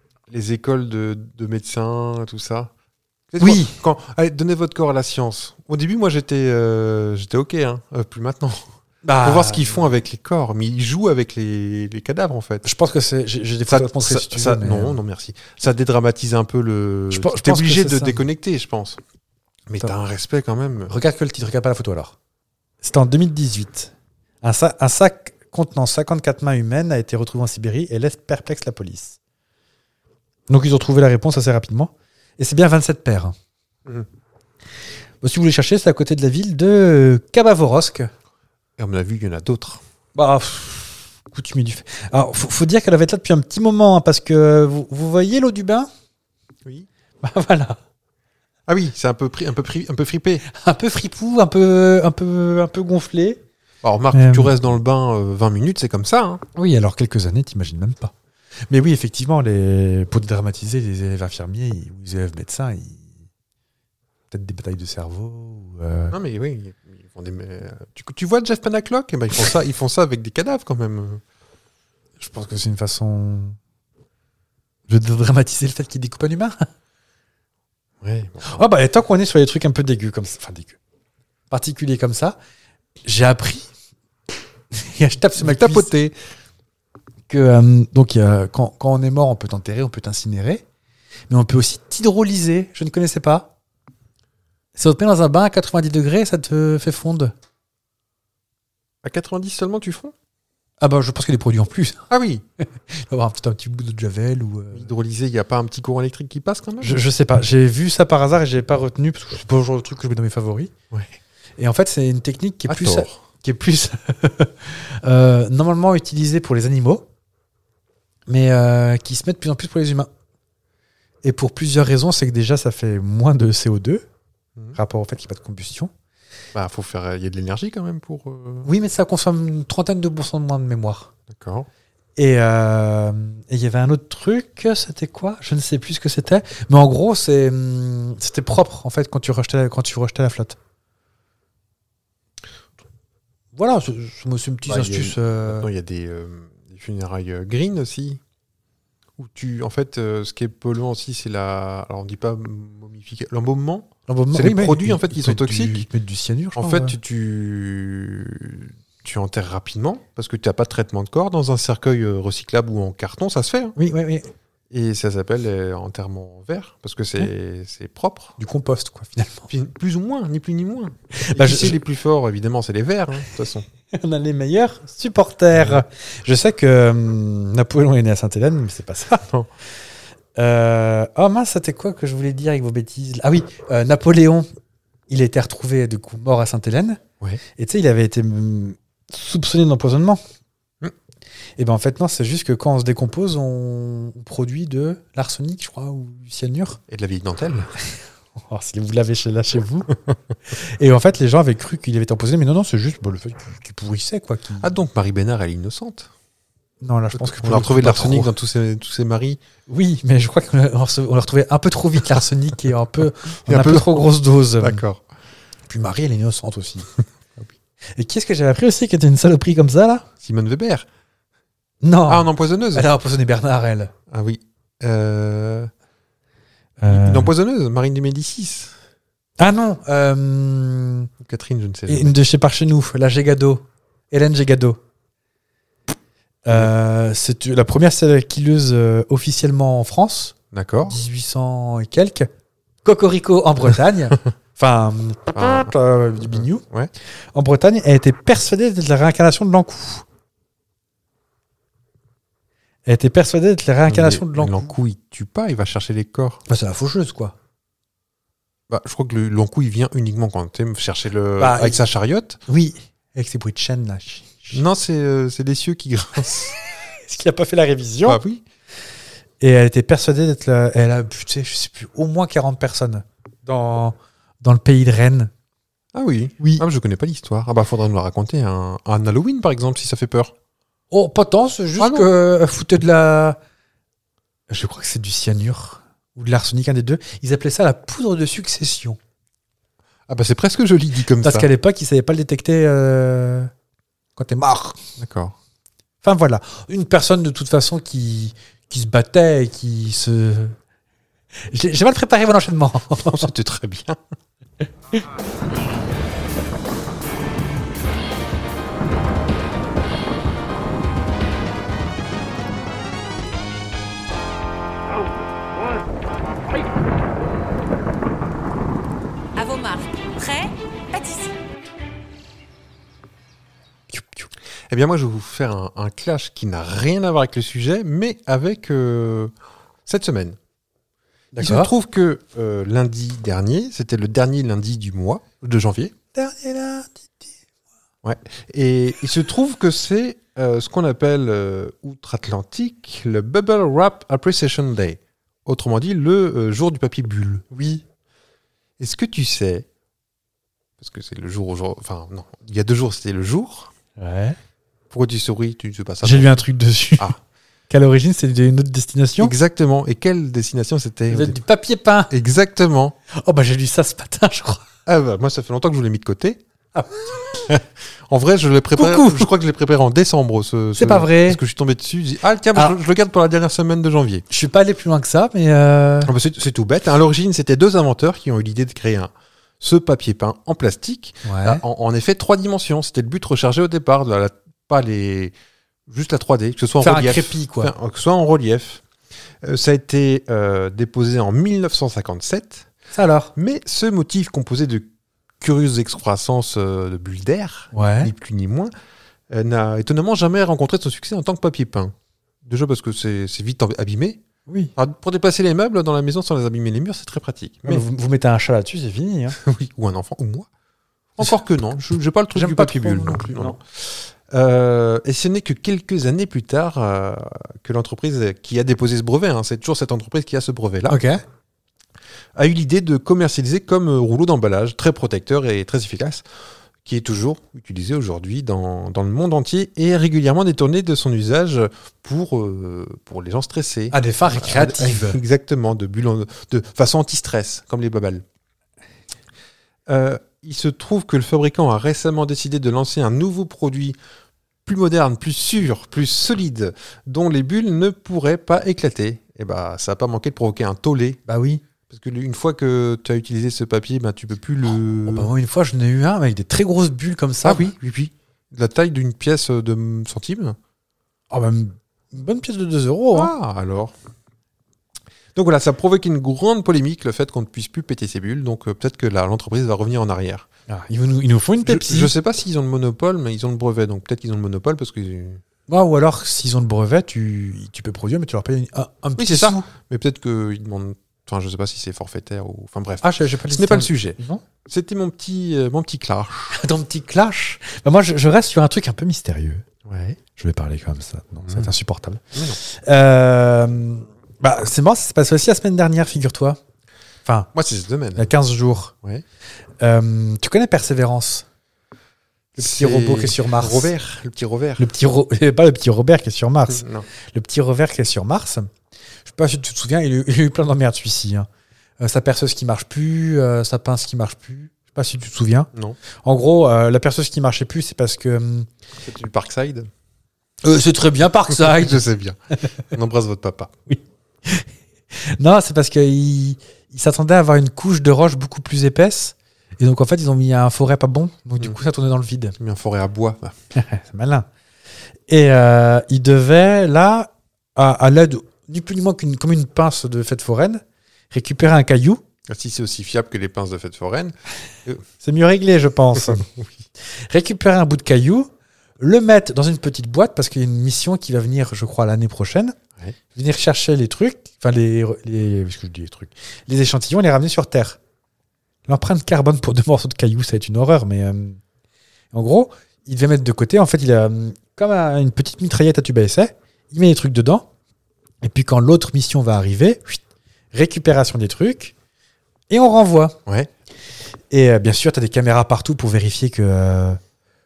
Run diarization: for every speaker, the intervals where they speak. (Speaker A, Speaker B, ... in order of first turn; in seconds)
Speaker A: 0.3-2.7, 3.3-8.7, 9.2-12.7, 13.7-19.0, 19.7-20.9, 38.8-39.8, 48.7-50.4, 53.8-56.4, 66.1-71.2, 78.0-78.6, 85.4-86.2, 99.0-100.1, 102.1-102.4, 104.7-107.0, 112.7-113.2, 126.5-128.7, 131.3-131.7, 144.7-148.2, 149.2-155.9, 156.6-163.8, 164.7-168.3, 169.5-173.7, 175.6-175.8, 179.1-179.5, 196.9-197.7, 204.6-206.1, 207.1-209.4, 213.4-215.0, 220.2-220.9, 222.1-222.9, 224.1-225.7, 226.9-228.7, 231.2-232.1, 240.5-241.0, 245.3-245.7, 246.3-246.9, 253.9-256.4, 258.7-262.4, 264.5-266.5, 268.1-268.4, 275.9-280.3, 281.8-282.1, 290.1-291.5, 295.0-295.3, 303.1-304.0, 324.7-329.3, 329.9-330.4, 331.3-335.9, 338.0-347.4, 348.8-349.6, 350.8-353.7, 354.9-356.4, 359.2-361.4, 362.1-362.9, 364.9-366.4, 367.5-374.2, 376.1-385.3, 385.9-388.8, 389.4-392.7, 393.4-394.9, 395.4-398.7, 399.3-404.2, 404.8-407.8, 409.4-410.5, 411.1-421.0, 422.3-426.2, 426.8-438.2, 439.9-444.0, 444.6-451.2, 451.9-455.3, 457.4-460.6, 463.1-463.9, 465.3-470.5, 471.6-475.4, 479.2-486.6, 489.8-490.2, 491.5-491.7, 497.5-498.3, 502.6-504.9, 506.7-507.1, 519.0-519.9, 521.5-522.4, 522.9-523.7, 532.6-533.5, 542.5-545.0, 546.2-546.7
Speaker B: 3.4-3.8, 9.0-9.8, 12.6-15.0, 17.1-18.2, 20.9-22.1, 22.8-29.2, 30.5-33.3, 35.2-38.1, 40.1-45.9, 47.2-47.8, 50.4-53.4, 54.1-54.5, 56.5-58.1, 58.7-63.1, 64.3-66.1, 72.2-73.6, 74.9-76.7, 78.4-80.8, 81.5-82.4, 83.0-83.7, 84.7-85.9, 87.3-90.6, 91.3-93.5, 94.8-97.3, 100.8-102.1, 102.6-104.9, 106.8-110.7, 111.6-117.0, 118.3-120.1, 121.2-124.0, 124.7-125.9, 128.6-131.1, 132.2-140.6, 143.5-145.7, 154.1-156.9, 163.8-164.3, 168.4-169.5, 171.2-171.7, 173.9-179.2, 180.3-184.5, 185.1-187.0, 187.6-190.2, 191.6-196.8, 198.4-199.9, 200.5-204.7, 206.8-208.3, 209.7-214.8, 215.7-216.9, 217.9-220.1, 221.8-223.9, 226.8-227.3, 229.4-231.1, 231.9-234.8, 236.4-240.3, 240.9-242.3, 242.8-246.6, 247.3-250.0, 252.8-254.7, 256.5-257.3, 261.4-261.8, 262.5-264.6, 267.0-268.2, 269.4-275.3, 280.9-283.4, 284.5-289.0, 291.2-293.5, 294.1-294.8, 296.0-300.6, 301.5-303.3, 323.9-324.3, 331.3-331.7, 336.1-337.2, 347.5-347.8, 354.0-354.4, 356.0-357.1, 357.7-359.3, 361.1-362.1, 363.1-364.6, 366.7-367.5, 368.8-369.3, 370.8-371.4, 374.3-376.1, 381.2-381.6, 386.8-387.7, 392.9-393.3, 397.7-398.1, 404.5-404.7, 407.6-409.4, 412.3-413.6, 420.9-421.2, 433.9-435.2, 451.3-451.6, 455.1-457.7, 461.3-463.3, 470.7-472.1, 475.7-479.6, 483.0-484.4, 486.5-489.6, 490.4-496.6, 497.2-497.5, 498.1-498.9, 499.8-501.4, 502.5-503.9, 504.8-508.7, 509.2-511.5, 512.0-515.7, 516.2-518.7, 520.6-522.0, 523.9-524.7, 525.4-532.5, 533.7-534.5, 535.3-542.2, 545.2-546.5, 547.1-548.5, 549.0-552.7, 553.3-558.0, 558.9-561.6, 562.3-567.7, 568.4-570.2, 570.7-571.9, 572.7-573.4, 574.5-577.2
Speaker C: 319.4-321.3